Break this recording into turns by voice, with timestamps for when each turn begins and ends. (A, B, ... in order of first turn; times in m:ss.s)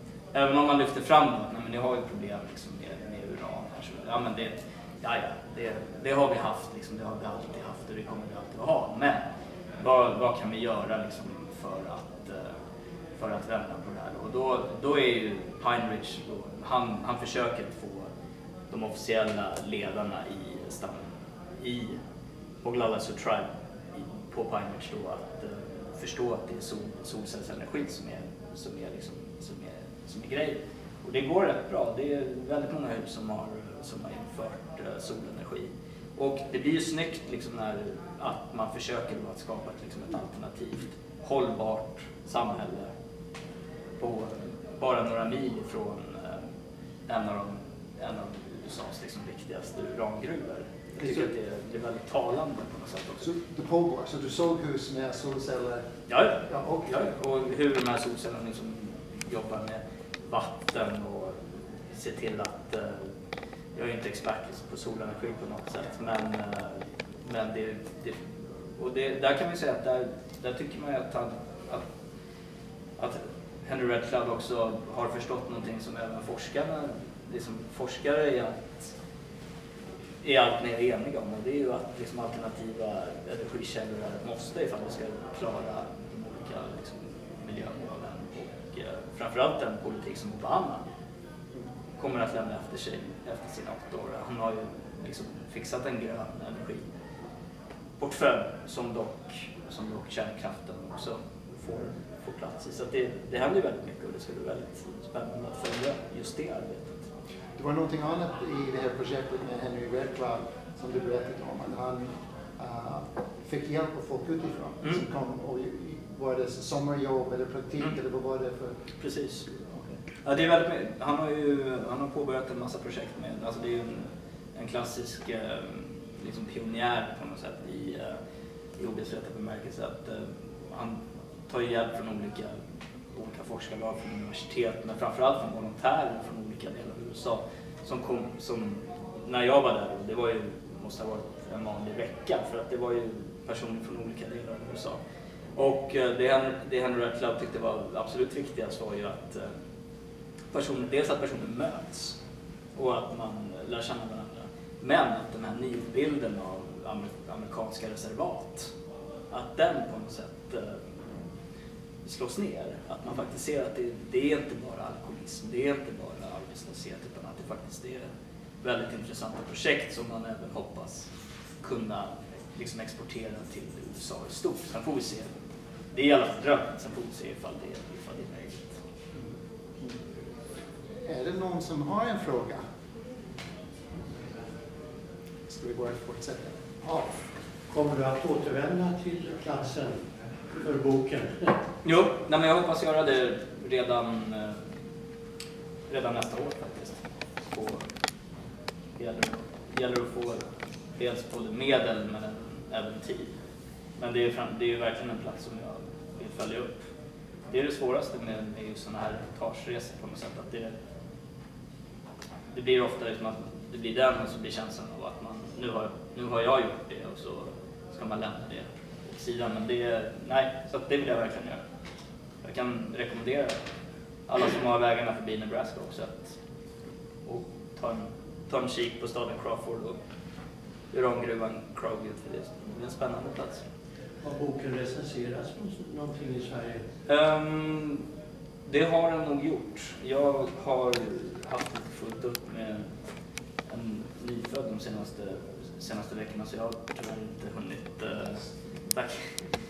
0:00.3-0:09.2 A
0:09.8-0:12.6 A
0:13.2-0:18.1 A
0:18.7-0:21.1 A
0:21.6-0:22.0 A
0:22.6-0:42.9 A
0:44.0-0:46.4 A
0:47.1-0:53.3 A
0:51.0-0:51.3 B
0:53.2-0:57.1 B
0:56.1-1:03.1 A
1:03.7-1:11.9 A
1:13.0-1:18.8 A
1:20.2-1:30.8 A
1:32.0-1:36.8 A
1:38.0-1:47.1 A
1:47.6-1:58.8 B
1:59.0-1:59.4 A
1:59.5-1:59.9 B
2:00.2-2:08.2 A
2:08.8-2:12.6 A
2:13.1-2:25.0 A
2:25.6-2:29.5 A
2:30.5-2:32.2 A
2:32.8-2:38.7 A
2:39.3-2:40.8 A
2:42.0-2:48.1 A
2:48.6-2:51.1 A
2:51.6-2:55.3 A
2:55.9-2:58.7 A
2:59.1-3:00.0 B
3:01.0-3:02.6 B
3:05.5-3:07.3 B
3:07.7-3:11.6 C
3:11.8-3:14.6 A
3:15.9-3:17.8 A
3:19.0-3:20.4 A
3:21.0-3:23.3 A
3:24.0-3:26.8 A
3:27.5-3:30.7 A
3:32.5-3:41.6 A
3:42.4-3:43.6 A
3:44.3-3:46.3 A
3:47.2-3:50.0 A
3:50.9-3:53.6 A
3:54.2-3:56.8 C
3:57.1-3:58.0 A
3:58.6-4:02.9 A
4:03.7-4:09.3 A